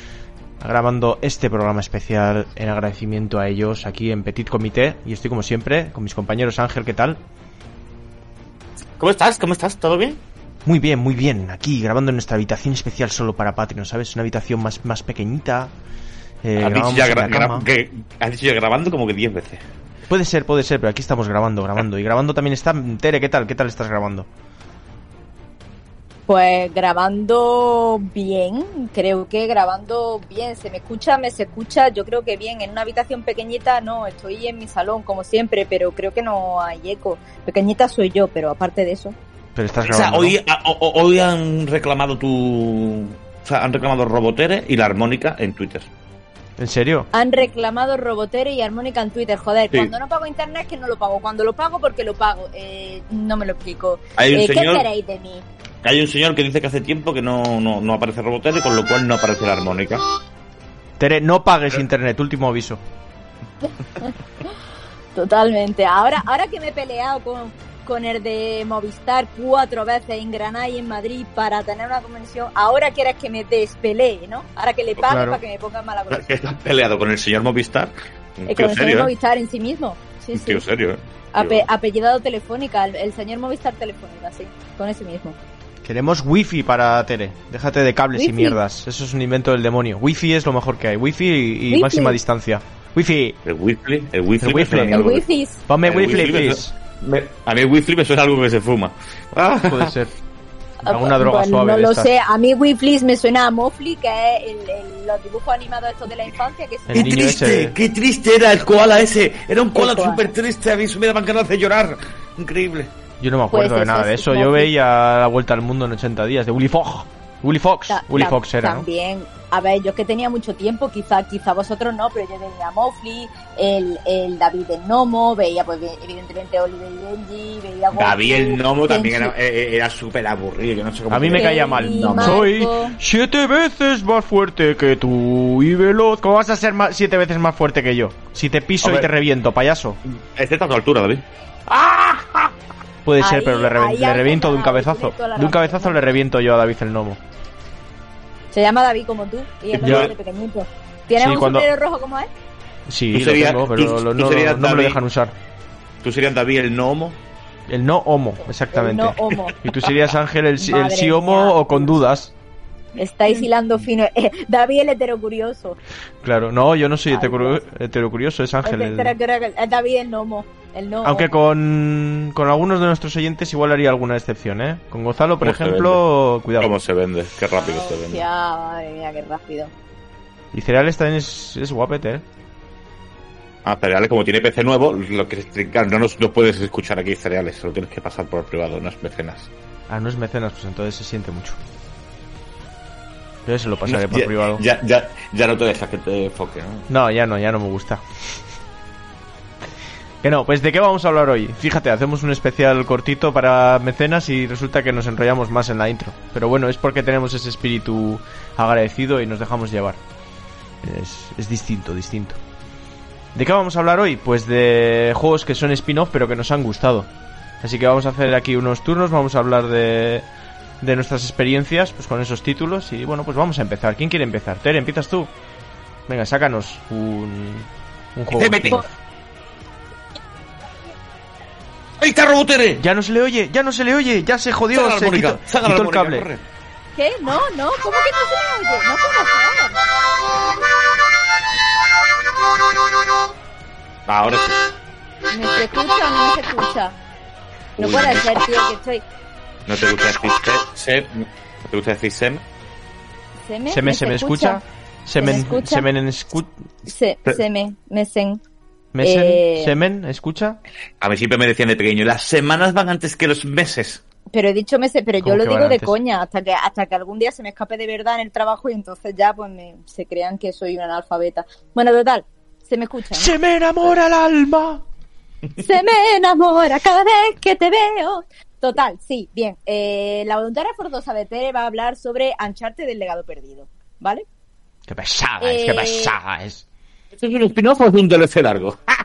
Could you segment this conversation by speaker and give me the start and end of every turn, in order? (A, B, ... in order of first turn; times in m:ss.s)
0:00.6-0:07.2 A
0:09.0-0:10.2 B
0:10.6-0:15.7 A
0:16.4-0:17.7 A
0:16.6-0:19.6 B
0:20.1-0:24.3 A
0:26.3-0:39.1 C
0:39.6-0:40.4 A
0:39.8-0:45.9 B
0:46.6-0:47.1 A
0:47.1-0:55.4 C
0:54.2-0:54.9 B
0:55.8-1:00.0 B
1:01.0-1:02.8 A
1:05.1-1:16.3 C
1:15.1-1:15.4 A
1:16.1-1:19.1 B
1:18.5-1:20.6 C
1:20.3-1:21.7 B
1:21.3-1:25.4 C
1:25.8-1:33.4 A
1:28.2-1:28.6 C
1:31.7-1:32.2 C
1:33.4-1:35.2 B
1:34.4-1:35.1 A
1:34.9-1:35.6 C
1:35.7-1:36.7 A
1:35.8-1:39.9 B
1:39.6-1:40.1 A
1:40.8-1:47.2 C
1:40.8-1:42.1 A
1:46.9-1:47.8 A
1:46.9-1:52.9 B
1:49.7-1:50.3 C
1:53.2-1:58.9 A
1:53.5-1:54.7 C
1:57.9-2:09.4 C
2:07.9-2:12.4 B
2:11.1-2:20.0 A
2:11.3-2:13.0 C
2:18.8-2:19.1 B
2:20.1-2:22.5 B
2:23.0-2:27.2 A
2:23.2-2:26.1 C
2:28.5-2:32.3 C
2:29.7-2:30.1 B
2:29.8-2:30.1 A
2:31.2-2:31.7 A
2:32.9-2:35.3 A
2:33.1-2:35.0 B
2:36.0-2:37.2 B
2:37.7-2:42.3 A
2:38.7-2:39.6 C
2:40.6-2:42.0 C
2:43.0-2:45.8 C
2:46.2-2:49.1 A
2:47.1-2:47.6 C
2:48.6-2:51.3 C
2:51.0-2:56.7 A
2:55.4-2:56.0 B
2:56.6-2:58.2 B
2:57.6-2:59.7 C
3:00.5-3:02.2 A
3:03.6-3:09.5 B
3:09.9-3:11.6 A
3:13.4-3:14.6 A
3:13.9-3:16.8 B
3:16.9-3:18.0 A
3:20.2-3:30.0 A
3:30.8-3:32.4 A
3:33.3-3:37.1 A
3:37.6-3:40.2 A
3:40.8-3:45.3 A
3:46.1-3:48.9 A
3:48.3-3:48.9 B
3:52.0-3:52.8 B
3:52.8-3:56.3 A
3:54.7-3:56.4 B
3:56.9-3:59.8 C
4:04.1-4:04.6 B
4:05.3-4:07.0 C
4:07.8-4:09.0 C
4:07.8-4:08.2 B
4:09.6-4:12.4 B
4:13.4-4:14.6 C
4:13.7-4:16.5 A
4:15.2-4:15.9 C
4:16.8-4:18.4 C
4:18.9-4:20.6 A
4:19.0-4:19.8 C
4:21.0-4:24.0 B
4:24.3-4:33.9 C
4:25.2-4:26.0 A
4:33.1-4:34.8 A
4:35.6-4:44.2 C
4:44.9-4:46.6 A
4:45.4-4:46.2 C
4:47.1-4:48.9 B